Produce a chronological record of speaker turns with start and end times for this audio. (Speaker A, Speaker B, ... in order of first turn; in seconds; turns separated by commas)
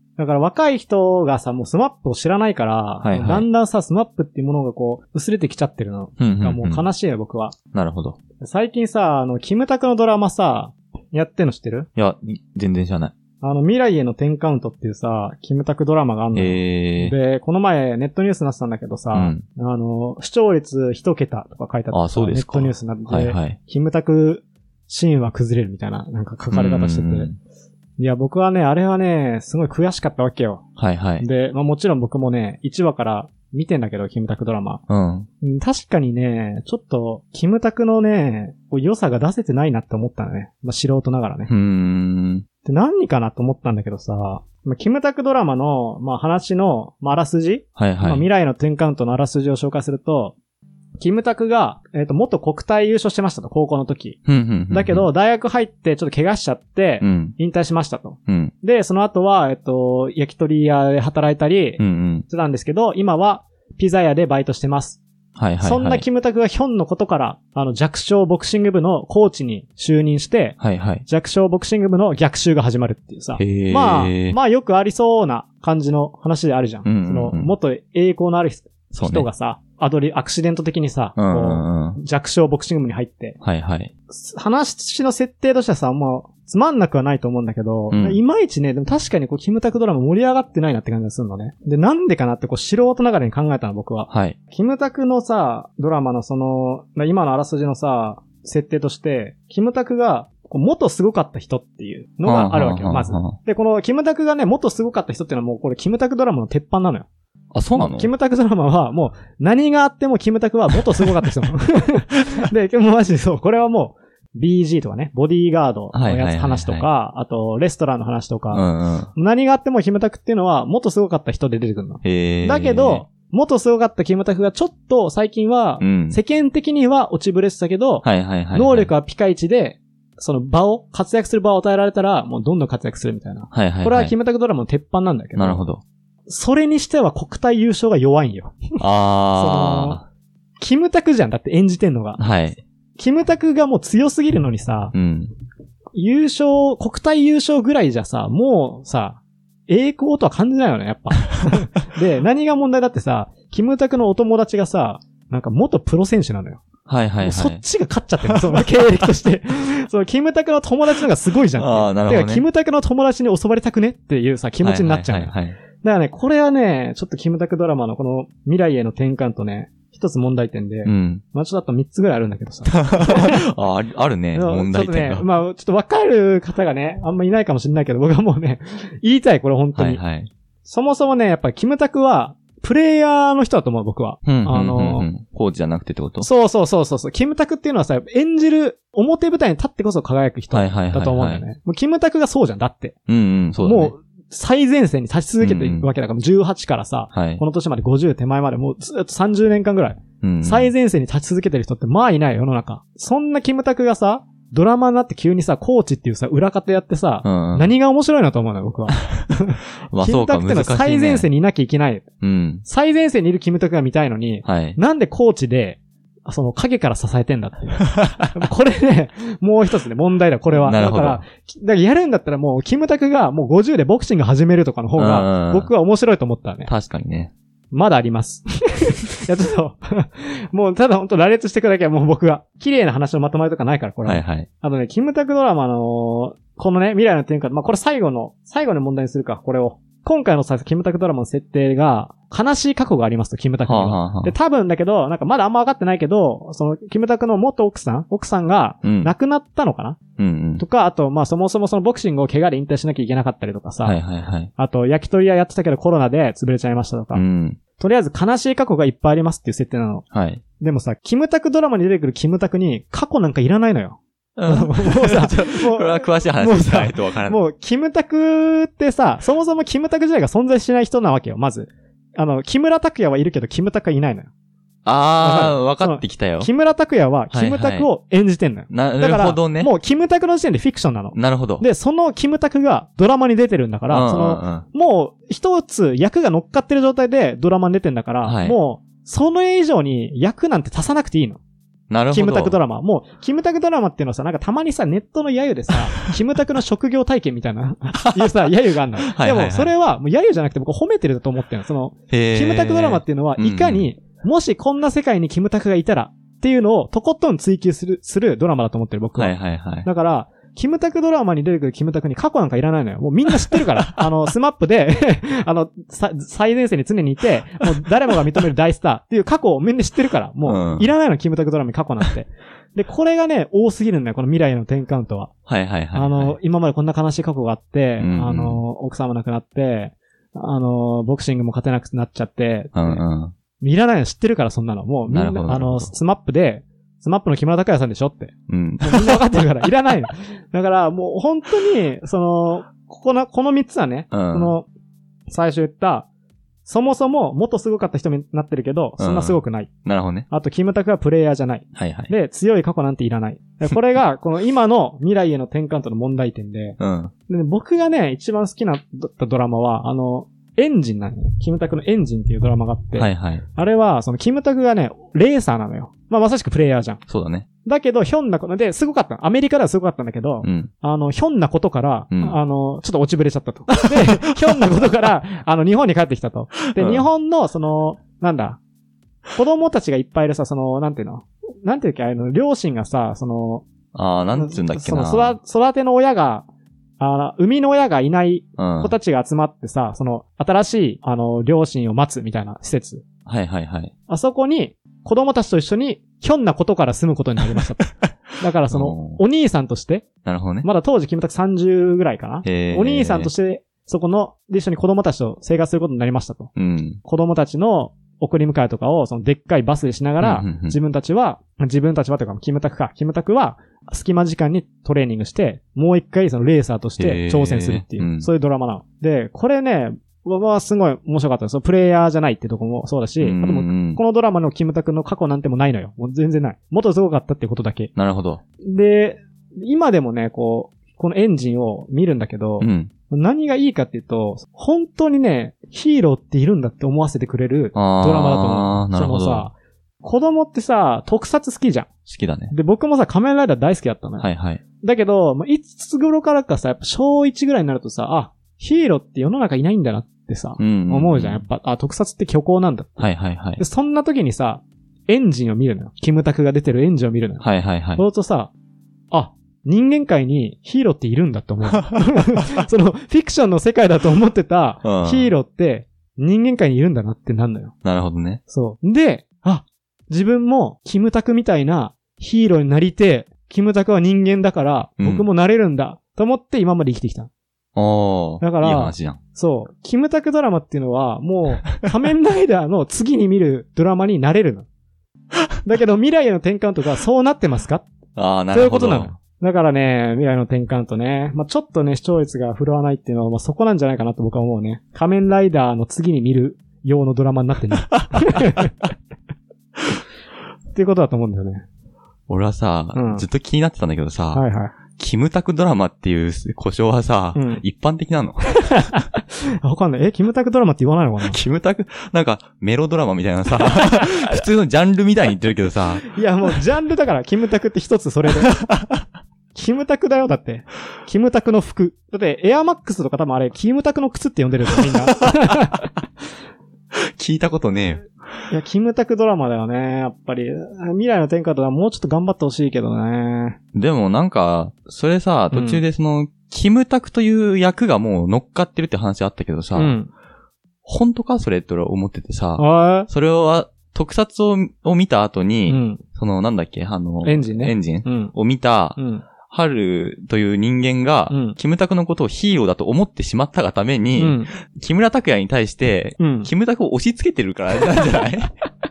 Speaker A: 0.2-7.5, Speaker B: 3.0-3.5, Speaker B: 6.2-6.9, Speaker B: 7.7-8.2, Speaker A: 8.4-11.9, Speaker B: 12.0-13.1, Speaker A: 13.4-27.3, Speaker B: 16.4-17.1, Speaker B: 19.1-19.4, Speaker B: 21.9-23.6, Speaker B: 26.5-27.4, Speaker A: 28.0-30.6, Speaker B: 30.8-31.2, Speaker A: 31.2-34.8, Speaker B: 34.9-35.3, Speaker A: 35.4-41.5, Speaker B: 41.5-42.5, Speaker A: 42.6-50.4, Speaker B: 47.8-48.2, Speaker A: 51.0-54.2, Speaker B: 54.3-55.1, Speaker A: 54.7-65.0, Speaker B: 57.0-57.4, Speaker B: 58.3-58.5, Speaker B: 61.8-62.3, Speaker B: 65.4-66.0, Speaker A: 65.6-83.4, Speaker B: 70.6-71.0, Speaker B: 73.4-74.4, Speaker B: 76.8-77.5, Speaker B: 78.9-79.3, Speaker B: 81.2-82.0, Speaker B: 83.4-83.9, Speaker A: 84.1-107.1, Speaker B: 87.9-88.2, Speaker B: 94.1-94.4, Speaker B: 102.2-103.3, Speaker B: 107.5-108.1, Speaker A: 107.8-135.6, Speaker B: 115.9-116.9, Speaker B: 118.5-119.1, Speaker B: 122.0-123.0, Speaker B: 125.8-126.2, Speaker B: 128.0-128.9, Speaker B: 133.5-134.1, Speaker B: 135.3-135.8, Speaker A: 136.3-138.8, Speaker B: 138.8-140.1, Speaker A: 139.3-140.0, Speaker A: 140.6-142.2, Speaker B: 142.2-142.6, Speaker A: 143.0-144.9, Speaker B: 144.9-145.3, Speaker A: 145.9-156.6, Speaker B: 156.9-157.6, Speaker A: 157.2-173.4, Speaker B: 161.6-162.4, Speaker B: 164.6-165.6, Speaker B: 170.8-171.2, Speaker B: 172.7-175.3, Speaker A: 174.3-180.0, Speaker B: 179.8-180.3, Speaker A: 180.7-185.1, Speaker B: 184.2-186.3, Speaker A: 186.2-193.0, Speaker B: 190.5-191.4, Speaker B: 193.1-193.9, Speaker A: 193.6-212.1, Speaker B: 195.4-195.9, Speaker B: 197.1-197.4, Speaker B: 200.2-200.7, Speaker B: 207.2-207.7, Speaker B: 209.9-211.3, Speaker B: 212.2-212.6, Speaker A: 212.6-226.7, Speaker B: 214.4-214.8, Speaker B: 220.5-221.3, Speaker B: 225.0-225.7, Speaker B: 226.7-227.3, Speaker A: 227.7-250.0, Speaker B: 234.1-234.5, Speaker B: 243.6-244.3, Speaker B: 248.8-249.1, Speaker B: 250.2-250.6, Speaker A: 250.6-254.0, Speaker B: 253.8-254.5, Speaker A: 254.6-257.2, Speaker B: 257.1-257.6, Speaker A: 257.8-260.1, Speaker B: 260.1-260.4, Speaker A: 260.6-274.3, Speaker B: 264.4-267.4, Speaker B: 274.9-276.5, Speaker A: 275.2-291.4, Speaker B: 277.3-277.9, Speaker B: 278.7-279.7, Speaker B: 281.1-281.6, Speaker B: 283.9-284.7, Speaker B: 288.2-288.6, Speaker B: 291.9-292.6, Speaker A: 292.1-325.3, Speaker B: 299.0-299.7, Speaker B: 302.1-303.9, Speaker B: 309.2-309.9, Speaker B: 320.5-320.9, Speaker B: 325.5-326.4, Speaker A: 325.9-333.0, Speaker B: 328.0-328.6, Speaker B: 332.7-333.3, Speaker A: 333.6-344.7, Speaker B: 335.1-335.9, Speaker B: 338.5-339.2, Speaker B: 344.1-344.6, Speaker A: 345.3-346.1, Speaker A: 346.6-349.7, Speaker B: 349.0-350.3, Speaker A: 350.3-367.0, Speaker B: 351.8-352.1, Speaker B: 356.8-357.1, Speaker B: 363.0-363.4, Speaker B: 367.1-367.5, Speaker A: 367.6-378.6, Speaker B: 370.4-370.7, Speaker B: 372.1-372.4, Speaker B: 376.7-377.1, Speaker A: 379.3-383.7, Speaker B: 383.9-385.4, Speaker A: 384.4-386.5, Speaker A: 387.0-393.1, Speaker B: 388.6-388.9, Speaker B: 393.3-393.9, Speaker A: 394.1-400.1, Speaker B: 398.7-399.2, Speaker B: 400.2-400.7, Speaker A: 400.6-406.5, Speaker B: 402.4-403.3, Speaker B: 406.6-407.0, Speaker A: 407.0-427.9, Speaker B: 410.2-410.8, Speaker B: 417.0-418.3, Speaker B: 423.2-424.0, Speaker B: 427.9-428.4, Speaker A: 428.6-441.9, Speaker B: 432.6-432.9, Speaker B: 437.7-439.5, Speaker B: 442.1-442.5, Speaker A: 442.5-444.3, Speaker B: 444.2-444.6, Speaker A: 444.8-453.1, Speaker B: 450.6-451.4, Speaker B: 453.0-453.6, Speaker A: 453.6-457.4, Speaker B: 457.4-458.0, Speaker A: 458.0-458.5, Speaker A: 459.1-467.7, Speaker B: 464.8-465.3, Speaker B: 467.8-468.4, Speaker A: 468.5-477.3, Speaker B: 475.0-475.3, Speaker B: 477.8-479.2, Speaker A: 478.4-484.7, Speaker A: 485.6-487.9, Speaker B: 488.2-489.1, Speaker A: 488.5-498.7, Speaker B: 498.0-498.6, Speaker A: 500.7-501.6, Speaker B: 502.3-504.4, Speaker A: 502.9-503.3, Speaker A: 504.3-504.7, Speaker B: 505.0-508.8, Speaker A: 507.4-507.6, Speaker A: 508.7-511.4, Speaker B: 511.2-516.0, Speaker A: 516.1-518.5, Speaker B: 518.5-519.0, Speaker A: 519.5-525.9, Speaker B: 525.3-525.6, Speaker B: 526.9-528.1, Speaker A: 528.5-533.6, Speaker B: 533.7-540.0, Speaker A: 535.5-535.8, Speaker A: 539.8-540.1, Speaker B: 540.8-558.5, Speaker A: 542.6-543.1, Speaker A: 545.7-546.0, Speaker A: 547.2-548.4, Speaker A: 549.0-549.3, Speaker A: 551.3-551.6, Speaker A: 554.2-554.5, Speaker A: 556.2-556.5